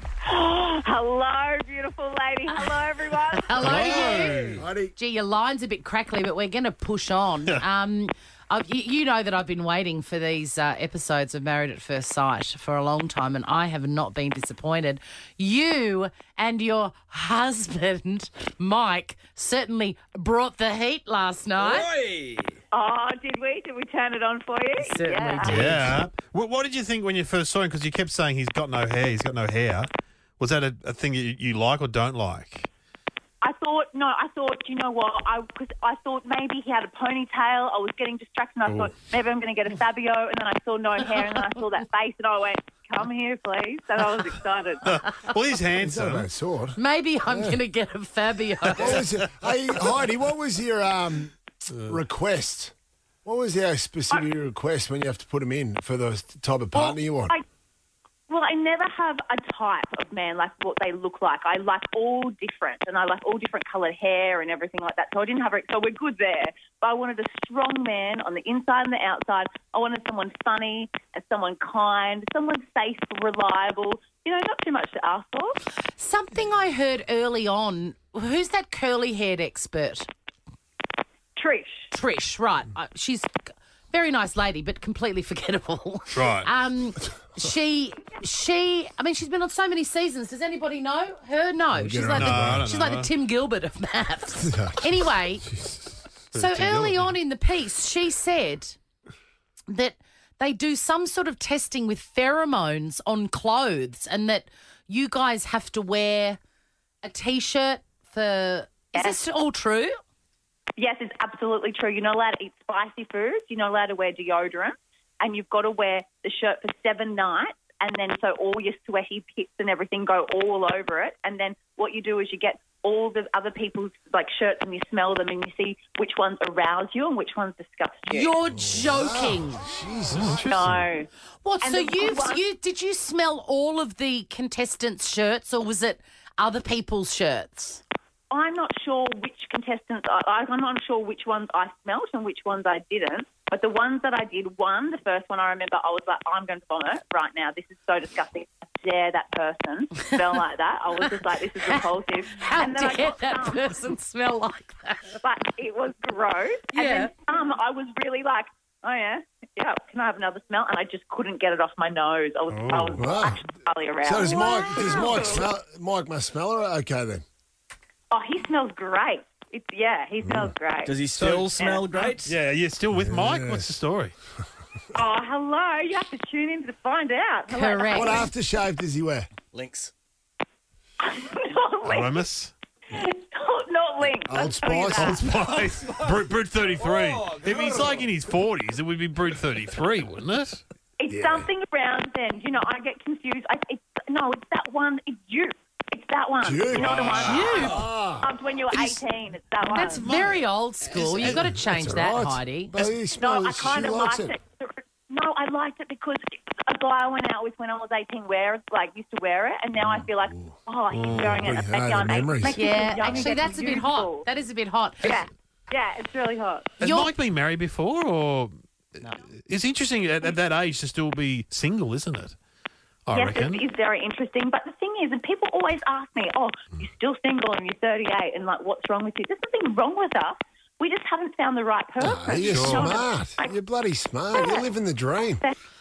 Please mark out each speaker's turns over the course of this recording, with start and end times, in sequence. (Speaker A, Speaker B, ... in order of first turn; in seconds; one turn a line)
Speaker A: 0.2-4.2
Speaker B: 3.4-21.9
Speaker C: 3.6-4.6
Speaker D: 4.5-4.9
Speaker E: 21.6-22.6
Speaker A: 22.7-25.6
Speaker B: 24.8-26.0
Speaker C: 25.4-29.9
Speaker C: 30.4-32.7
Speaker A: 33.4-44.8
Speaker C: 44.8-46.3
Speaker D: 45.8-47.6
Speaker B: 46.8-49.1
Speaker D: 48.8-52.7
Speaker D: 53.2-57.3
Speaker A: 56.7-57.4
Speaker A: 58.3-75.6
Speaker B: 76.0-80.1
Speaker A: 81.4-81.9
Speaker B: 81.9-83.3
Speaker B: 83.9-95.4
Speaker C: 86.1-86.5
Speaker D: 91.7-92.7
Speaker C: 92.1-93.1
Speaker D: 94.4-94.9
Speaker C: 96.3-97.1
Speaker B: 96.3-98.8
Speaker B: 99.7-106.4
Speaker B: 107.0-110.0
Speaker A: 110.8-128.3
Speaker B: 128.1-129.7
Speaker D: 128.6-130.5
Speaker C: 130.1-130.8
Speaker A: 130.4-131.1
Speaker B: 131.4-137.8
Speaker A: 131.6-132.4
Speaker A: 138.3-153.8
Speaker B: 152.4-155.2
Speaker A: 155.2-165.5
Speaker B: 156.7-157.1
Speaker C: 162.5-163.1
Speaker D: 162.9-163.4
Speaker D: 164.0-167.2
Speaker A: 168.1-171.0
Speaker D: 170.2-170.5
Speaker E: 170.8-172.3
Speaker C: 171.2-171.5
Speaker A: 171.5-172.1
Speaker C: 172.2-174.1
Speaker D: 172.9-173.8
Speaker A: 174.9-178.3
Speaker B: 177.5-178.3
Speaker D: 177.9-179.3
Speaker E: 179.5-179.9
Speaker A: 181.0-182.2
Speaker C: 181.8-182.5
Speaker A: 182.9-185.2
Speaker D: 184.3-185.7
Speaker C: 184.9-190.6
Speaker E: 185.7-186.2
Speaker E: 186.7-188.1
Speaker A: 191.0-200.0
Speaker D: 191.1-191.5
Speaker D: 196.4-198.3
Speaker C: 196.7-197.6
Speaker B: 197.2-197.8
Speaker B: 198.7-199.0
Speaker B: 199.6-202.8
Speaker C: 199.8-201.5
Speaker D: 201.2-204.3
Speaker A: 203.2-214.2
Speaker D: 209.8-210.6
Speaker C: 210.9-211.5
Speaker D: 211.2-212.6
Speaker B: 212.5-215.2
Speaker A: 215.0-216.8
Speaker C: 216.8-222.3
Speaker B: 216.8-217.1
Speaker C: 223.1-223.6
Speaker A: 223.1-233.6
Speaker D: 232.0-235.4
Speaker C: 232.3-233.0
Speaker A: 234.3-234.7